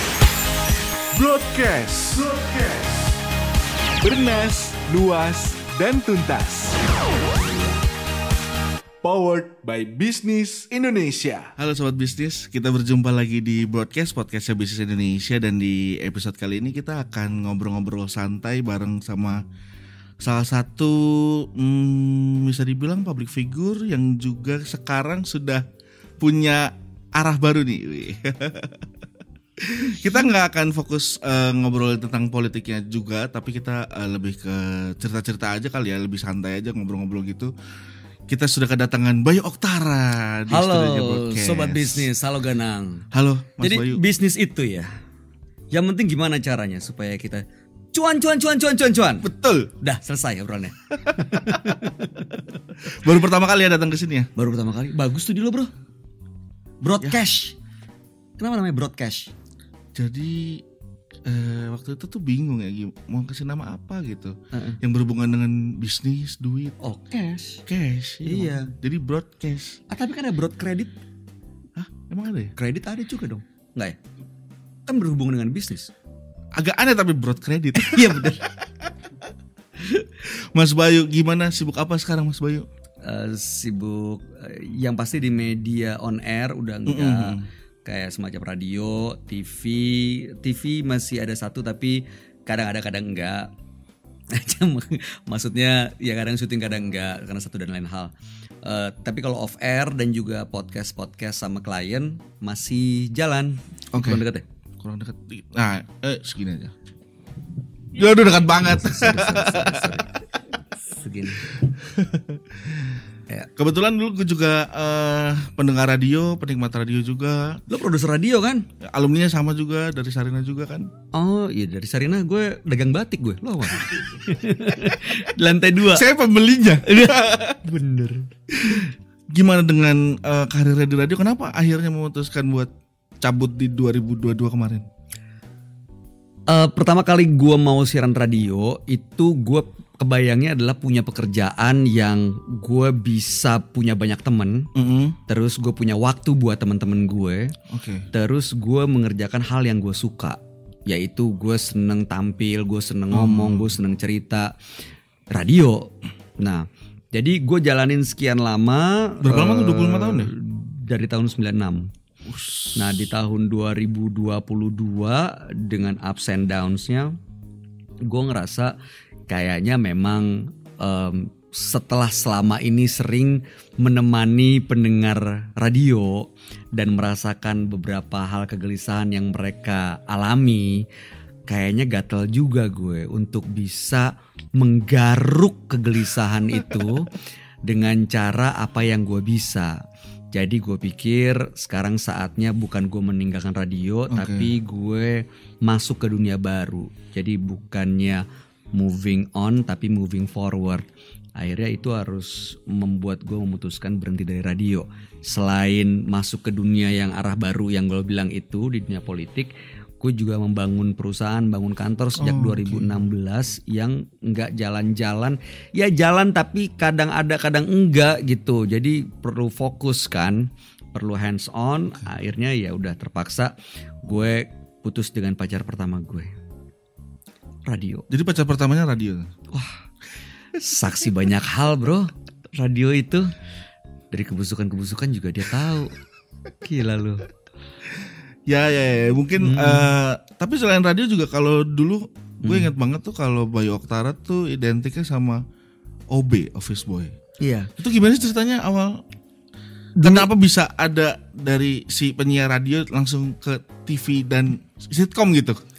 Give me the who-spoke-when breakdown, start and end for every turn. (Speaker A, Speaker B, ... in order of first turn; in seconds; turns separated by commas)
Speaker A: 1.1-3.1, Speaker A: 4.0-6.8, Speaker A: 9.0-11.5, Speaker B: 11.6-19.4, Speaker B: 20.2-25.6, Speaker B: 26.2-28.8, Speaker B: 29.6-37.5, Speaker B: 38.3-42.1, Speaker C: 40.5-43.0, Speaker B: 43.1-44.0, Speaker C: 43.6-44.9, Speaker C: 45.7-49.3, Speaker B: 49.2-49.7, Speaker C: 49.8-52.6, Speaker B: 51.2-51.7, Speaker B: 52.8-54.3, Speaker C: 54.4-55.7, Speaker C: 56.8-57.5, Speaker C: 58.4-59.3, Speaker B: 59.9-60.6, Speaker B: 61.2-66.7, Speaker C: 64.5-64.8, Speaker C: 66.8-67.6, Speaker B: 67.7-69.8, Speaker C: 68.2-68.7, Speaker C: 69.9-70.9, Speaker B: 71.8-72.5, Speaker C: 72.6-74.0, Speaker C: 74.9-75.9, Speaker B: 76.6-78.3, Speaker C: 77.8-78.5, Speaker B: 79.8-82.7, Speaker C: 83.0-93.5, Speaker B: 86.9-87.5, Speaker C: 94.3-98.1, Speaker C: 98.6-104.4, Speaker B: 103.9-104.2, Speaker B: 104.8-106.7, Speaker B: 107.9-110.0, Speaker C: 108.6-110.1, Speaker C: 111.0-111.5, Speaker B: 111.6-113.0, Speaker B: 113.6-117.6, Speaker C: 117.7-118.7, Speaker B: 118.8-120.9, Speaker C: 121.1-126.1, Speaker B: 125.9-127.6, Speaker C: 126.8-128.9, Speaker B: 128.6-132.7, Speaker B: 133.2-134.8, Speaker C: 136.5-144.7, Speaker B: 144.7-145.2, Speaker C: 145.3-147.5, Speaker B: 147.7-148.1, Speaker C: 148.1-154.5, Speaker B: 153.1-153.8, Speaker C: 155.3-161.9, Speaker B: 159.2-160.3, Speaker B: 162.2-163.1, Speaker C: 162.8-167.1, Speaker C: 168.1-168.8, Speaker C: 169.3-180.8, Speaker C: 181.5-187.1, Speaker C: 187.7-189.8, Speaker C: 190.3-200.8, Speaker B: 194.1-194.5, Speaker C: 201.4-226.3, Speaker B: 212.2-213.1, Speaker C: 227.7-228.0, Speaker B: 228.1-229.3, Speaker C: 229.5-229.8, Speaker C: 230.6-233.3, Speaker C: 234.1-235.9, Speaker C: 236.6-237.3, Speaker B: 237.9-245.4, Speaker C: 239.4-239.9, Speaker C: 242.4-242.7, Speaker B: 246.1-247.1, Speaker C: 247.4-247.7, Speaker B: 247.8-249.0, Speaker C: 250.0-250.3, Speaker B: 250.0-255.6